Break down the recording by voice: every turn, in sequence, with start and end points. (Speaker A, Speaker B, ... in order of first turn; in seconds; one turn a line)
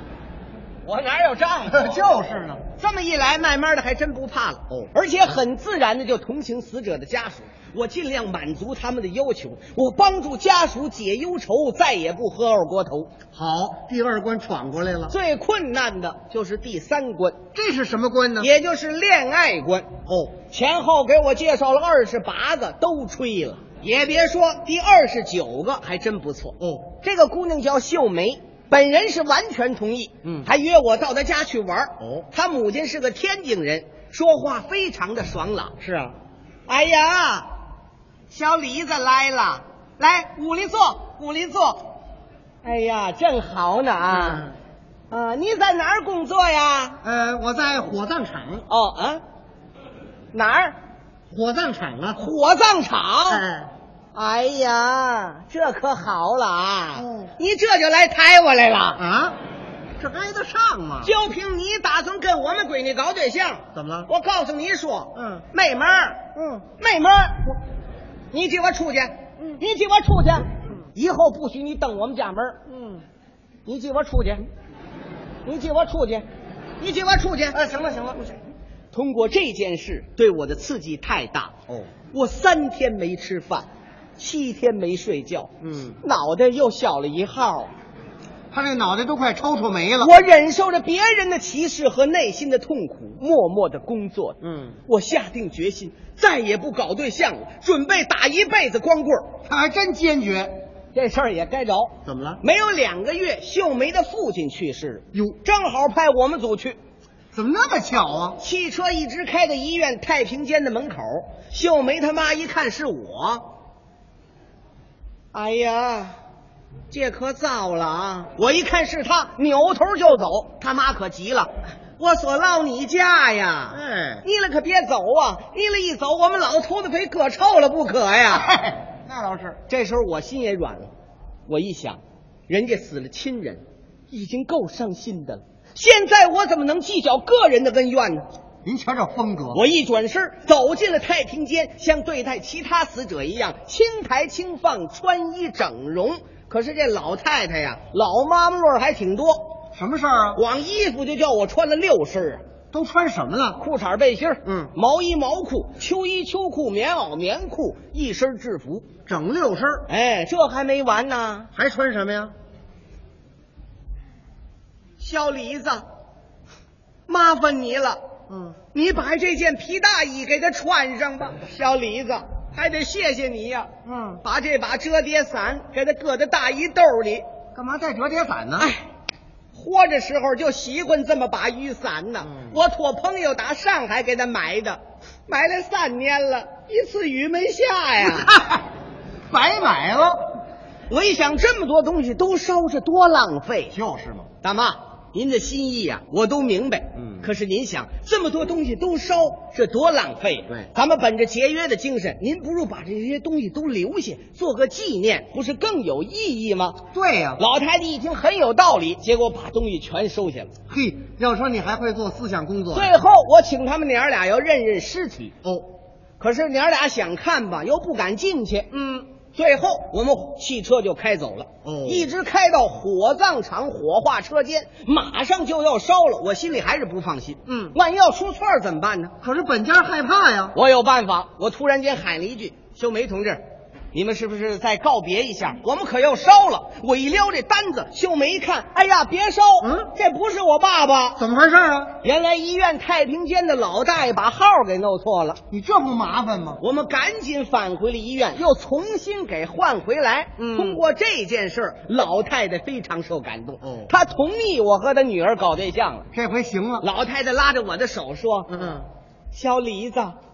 Speaker A: 0.8-2.1
Speaker B: 1.7-2.6
Speaker A: 2.8-13.1
Speaker B: 13.3-15.1
Speaker A: 15.1-17.4
Speaker B: 17.6-18.5
Speaker A: 18.4-19.9
Speaker B: 20.1-20.3
Speaker A: 20.5-35.8
Speaker B: 26.6-26.9
Speaker B: 32.0-32.3
Speaker B: 35.8-36.2
Speaker A: 36.7-37.5
Speaker A: 38.3-41.9
Speaker A: 42.6-44.5
Speaker B: 44.2-44.5
Speaker A: 45.1-47.0
Speaker B: 47.0-48.6
Speaker A: 48.7-49.2
Speaker A: 50.3-50.8
Speaker B: 51.3-52.2
Speaker A: 52.1-53.5
Speaker B: 53.3-53.7
Speaker A: 54.1-59.0
Speaker B: 57.0-57.3
Speaker B: 59.0-59.4
Speaker B: 60.0-61.1
Speaker A: 61.0-67.5
Speaker B: 63.7-64.1
Speaker B: 65.2-65.5
Speaker B: 66.3-66.7
Speaker A: 68.3-72.6
Speaker B: 72.7-73.0
Speaker A: 73.7-74.5
Speaker A: 75.4-76.3
Speaker A: 76.8-77.6
Speaker B: 77.5-78.3
Speaker A: 78.9-81.5
Speaker A: 82.1-87.7
Speaker B: 85.6-86.0
Speaker B: 88.5-90.2
Speaker A: 90.0-99.3
Speaker B: 94.4-94.8
Speaker B: 99.5-100.6
Speaker A: 100.9-106.8
Speaker B: 102.0-102.4
Speaker B: 105.1-105.4
Speaker B: 107.3-108.4
Speaker A: 108.4-113.5
Speaker A: 115.3-116.2
Speaker A: 116.9-128.5
Speaker B: 123.7-124.2
Speaker B: 128.3-129.6
Speaker A: 129.7-130.9
Speaker A: 131.5-138.3
Speaker B: 138.7-139.6
Speaker A: 139.5-149.5
Speaker B: 149.8-150.4
Speaker A: 150.3-152.4
Speaker B: 152.7-153.6
Speaker A: 153.6-158.9
Speaker B: 154.4-154.7
Speaker B: 159.1-159.9
Speaker A: 159.9-161.5
Speaker B: 161.6-162.3
Speaker A: 165.0-165.9
Speaker A: 167.1-168.0
Speaker B: 168.3-168.6
Speaker A: 168.7-173.7
Speaker B: 173.8-174.2
Speaker A: 174.2-177.3
Speaker B: 177.5-178.7
Speaker A: 178.6-178.9
Speaker A: 179.5-188.3
Speaker B: 182.2-182.6
Speaker B: 188.0-188.7
Speaker B: 189.3-190.3
Speaker A: 190.9-193.8
Speaker B: 193.7-194.3
Speaker A: 194.4-206.8
Speaker B: 197.0-197.3
Speaker B: 206.9-207.4
Speaker A: 207.4-210.5
Speaker B: 210.7-213.0
Speaker A: 212.7-215.3
Speaker A: 216.2-229.1
Speaker B: 221.7-222.1
Speaker B: 229.2-230.6
Speaker A: 230.5-233.4
Speaker A: 233.9-241.2
Speaker B: 239.6-239.9
Speaker B: 241.2-242.0
Speaker A: 242.0-245.4
Speaker B: 245.5-246.6
Speaker A: 246.6-256.1
Speaker B: 250.4-250.8
Speaker B: 253.6-253.9
Speaker B: 256.1-256.9
Speaker A: 256.8-258.6
Speaker B: 258.5-258.9
Speaker A: 259.3-260.2